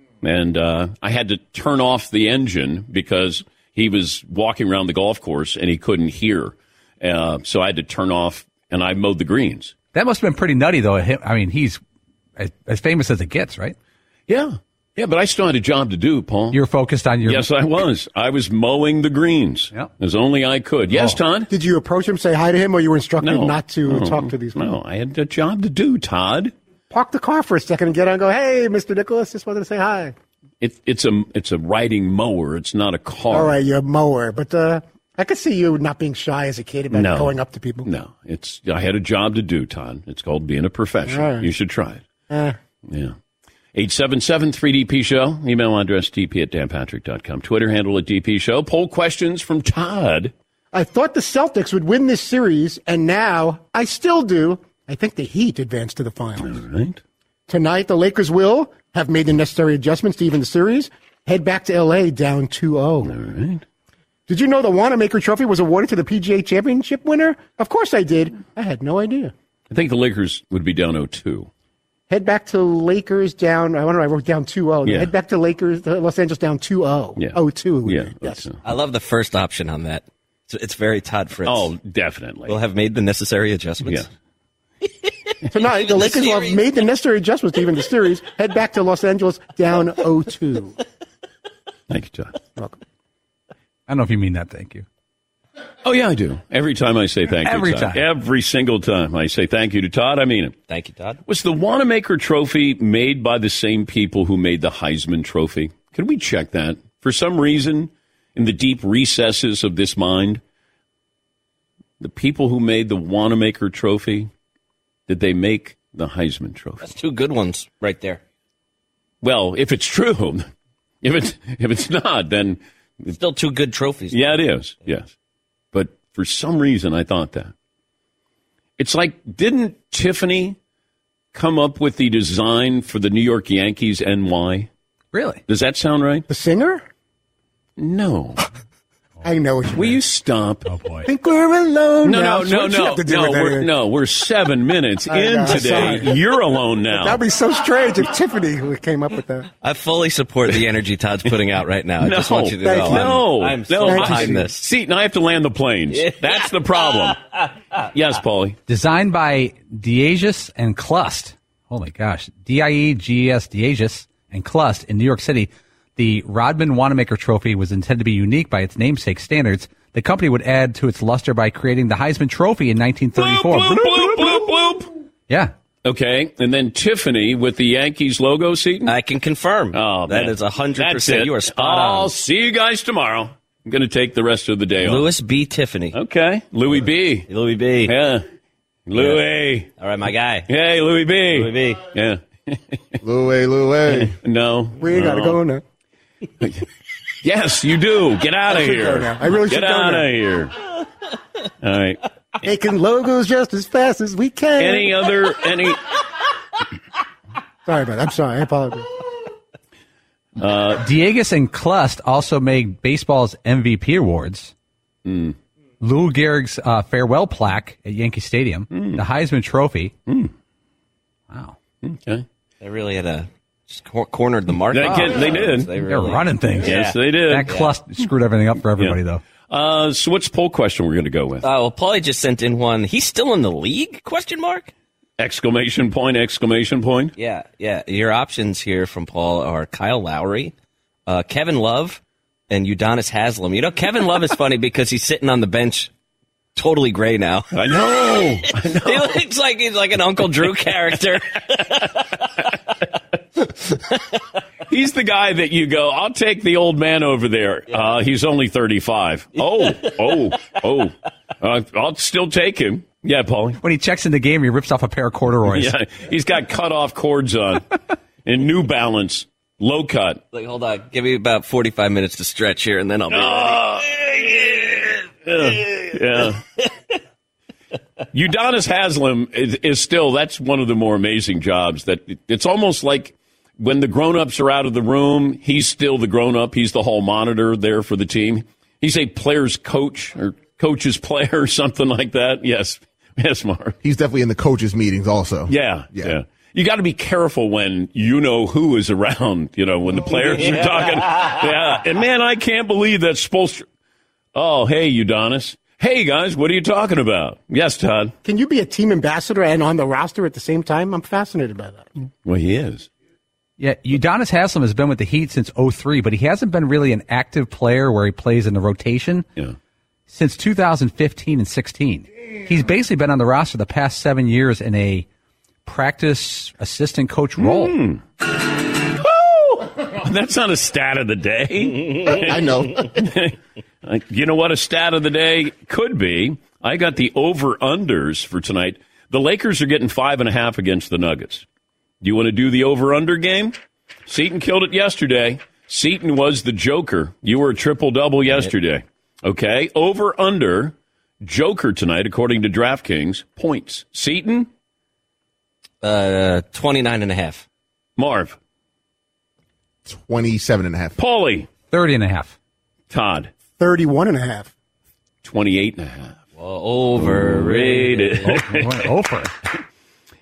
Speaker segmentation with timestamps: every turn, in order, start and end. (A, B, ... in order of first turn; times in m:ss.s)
0:00.2-0:09.7 A
0:09.9-0:11.8 B
0:12.4-0:13.8 B
0:14.3-0:16.6 A
0:16.5-0:17.5 B
0:17.2-0:21.5 A
0:21.5-0:24.7 C
0:23.2-0:26.5 A
0:26.9-0:30.1 C
0:30.6-0:33.5 A
0:33.3-0:37.9 C
0:36.9-0:42.0 A
0:41.1-0:41.5 C
0:42.3-0:42.6 C
0:42.9-0:43.1 A
0:43.7-0:50.3 A
0:50.7-0:56.6 C
0:56.4-0:57.0 A
0:57.5-1:03.2 C
1:03.0-1:03.6 A
1:04.3-1:09.3 C
1:09.7-1:11.5 A
1:12.1-1:18.4 C
1:14.8-1:15.1 A
1:17.2-1:18.6 A
1:18.6-1:21.7 D
1:21.4-1:22.6 A
1:22.5-1:24.1 D
1:23.8-1:24.1 A
1:25.5-1:30.8 C
1:25.9-1:26.6 D
1:31.9-1:32.3 A
1:33.9-1:34.8 B
1:35.8-1:40.6 A
1:37.4-1:38.0 B
1:40.7-1:41.2 D
1:41.3-1:50.4 A
1:52.0-1:54.3 A
1:55.1-1:56.8 A
1:56.8-1:58.2 D
1:59.2-2:00.5 A
2:01.0-2:03.1 A
2:03.1-2:04.4 D
2:04.1-2:05.1 A
2:05.7-2:07.5 A
2:08.8-2:10.6 A
2:11.3-2:14.7 A
2:15.1-2:15.4 B
2:15.5-2:16.2 A
2:16.3-2:16.8 C
2:17.8-2:18.4 A
2:19.2-2:20.0 C
2:19.7-2:20.7 A
2:20.6-2:21.1 B
2:21.0-2:23.7 C
2:22.0-2:27.2 A
2:25.1-2:26.1 C
2:26.9-2:29.5 C
2:29.6-2:34.7 D
2:32.0-2:37.2 A
2:32.6-2:33.2 C
2:33.8-2:34.4 C
2:35.9-2:37.2 D
2:37.9-2:38.6 A
2:38.7-2:54.1 B
2:53.2-2:54.9 A
2:55.8-2:59.0 A
2:58.8-3:02.1 D
2:59.7-3:05.1 A
3:04.8-3:06.0 D
3:05.9-3:07.3 A
3:07.3-3:07.9 D
3:07.8-3:08.2 A
3:08.9-3:09.7 A
3:09.0-3:09.2 D
3:09.8-3:10.5 D
3:10.5-3:13.0 A
3:11.3-3:11.8 D
3:13.0-3:14.1 E
3:13.9-3:15.4 A
3:14.8-3:15.6 C
3:16.4-3:16.6 A
3:17.2-3:20.6 A
3:18.5-3:20.1 C
3:21.6-3:22.0 A
3:22.4-3:25.1 C
3:24.6-3:26.0 A
3:27.6-3:29.0 C
3:30.4-3:30.8 A
3:30.7-3:34.5 B
3:35.0-3:35.4 A
3:35.8-3:39.9 B
3:38.7-3:39.0 A
3:40.1-3:40.3 A
3:41.3-3:41.6 B
3:41.8-3:42.2 A
3:42.6-3:47.7 D
3:44.7-3:45.7 A
3:45.8-3:49.2 B
3:46.6-3:47.7 A
3:49.5-3:51.4 A
3:51.4-3:54.7 D
3:55.2-3:57.1 A
3:57.2-4:00.5 D
4:01.1-4:05.9 D
4:06.5-4:12.2 D
4:07.5-4:09.2 A
4:14.7-4:23.6 A
4:19.4-4:20.5 D
4:23.6-4:25.7 B
4:25.5-4:30.2 A
4:30.3-4:36.2 D
4:33.1-4:34.6 A
4:35.2-4:36.4 A
4:38.1-4:53.8 A
4:53.8-4:56.1 E
4:55.5-5:03.6 A
5:04.3-5:08.1 A
5:08.2-5:11.9 C
5:12.2-5:12.9 A
5:13.6-5:19.3 B
5:20.1-5:25.0 B
5:25.6-5:27.8 B
5:27.4-5:28.0 A
5:28.6-5:41.4 A
5:32.1-5:32.8 E
5:42.0-5:43.6 A
5:44.1-5:54.5 A
5:55.8-5:57.4 D
5:58.0-5:58.4 A
5:59.8-6:00.9 E
6:01.0-6:01.5 A
6:01.7-6:02.4 B
6:02.9-6:03.3 A
6:03.6-6:04.5 C
6:05.2-6:06.2 A
6:06.4-6:08.2 D
6:07.0-6:08.9 A
6:08.2-6:09.3 B